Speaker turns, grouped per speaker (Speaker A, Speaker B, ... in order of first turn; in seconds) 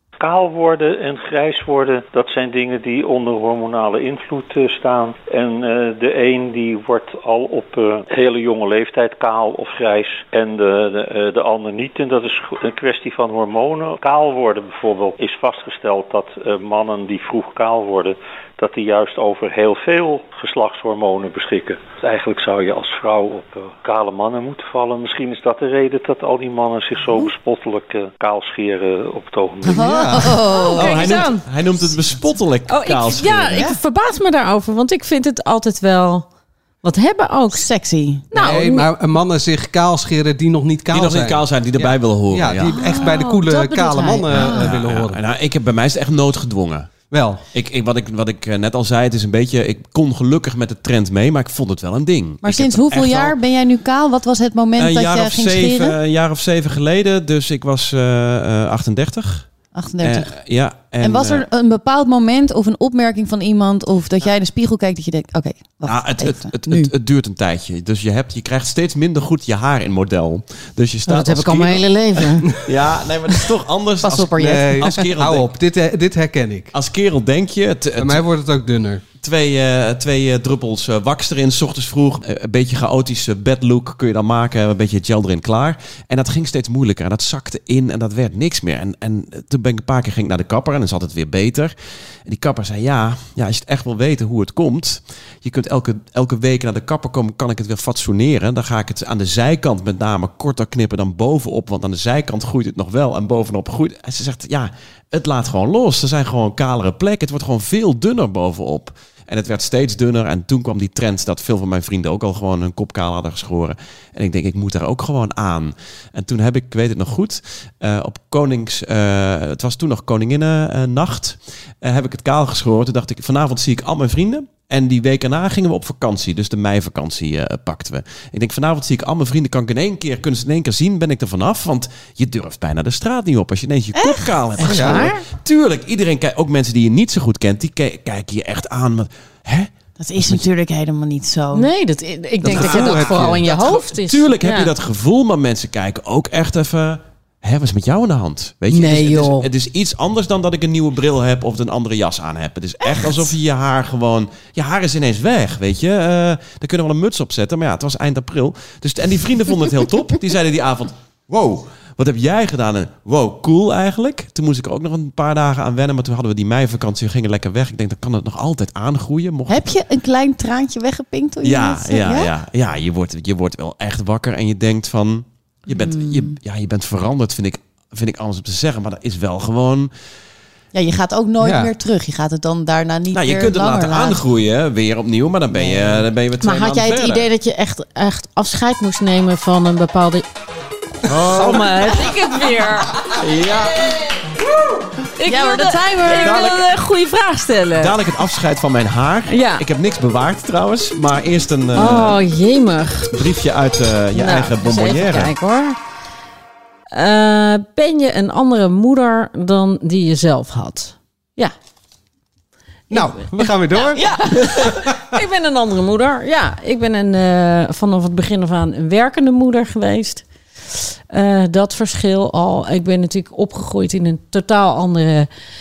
Speaker A: 0.2-30.1
Speaker B: 29.7-31.2, 37.5-38.3, 42.9-43.1, 52.4-56.0, 59.8-60.3, 61.0-66.9, 74.0-75.0, 133.9-134.9, 140.0-141.7, 169.5-172.3, 175.7-176.4, 180.7-184.2, 185.5-186.0, 195.2-196.5, 213.9-214.4
Speaker C: 29.7-30.4, 38.3-45.2, 47.1-47.4, 74.4-76.7, 78.0-79.0, 134.6-135.1, 142.4-143.5, 181.4-181.7, 212.9-215.2
Speaker D: 30.4-31.5, 32.7-36.3, 36.8-37.7, 38.3-38.9, 42.7-44.7, 71.1-72.5, 134.6-135.2, 141.5-144.7, 148.7-149.5, 186.4-190.2, 191.2-193.0, 195.2-197.9, 199.3-199.7, 201.8-203.3, 204.1-205.8, 206.9-211.5, 212.9-213.2, 214.2-225.3
Speaker E: 30.7-33.7, 40.9-42.8, 44.4-46.9, 47.5-53.4, 54.8-59.5, 60.0-61.5, 65.9-75.5, 76.7-78.2, 79.2-91.7, 92.3-140.5, 142.5-169.7, 171.4-179.9, 183.1-187.3, 191.1-191.9, 193.1-194.2, 196.2-196.6, 197.8-202.2, 203.1-205.3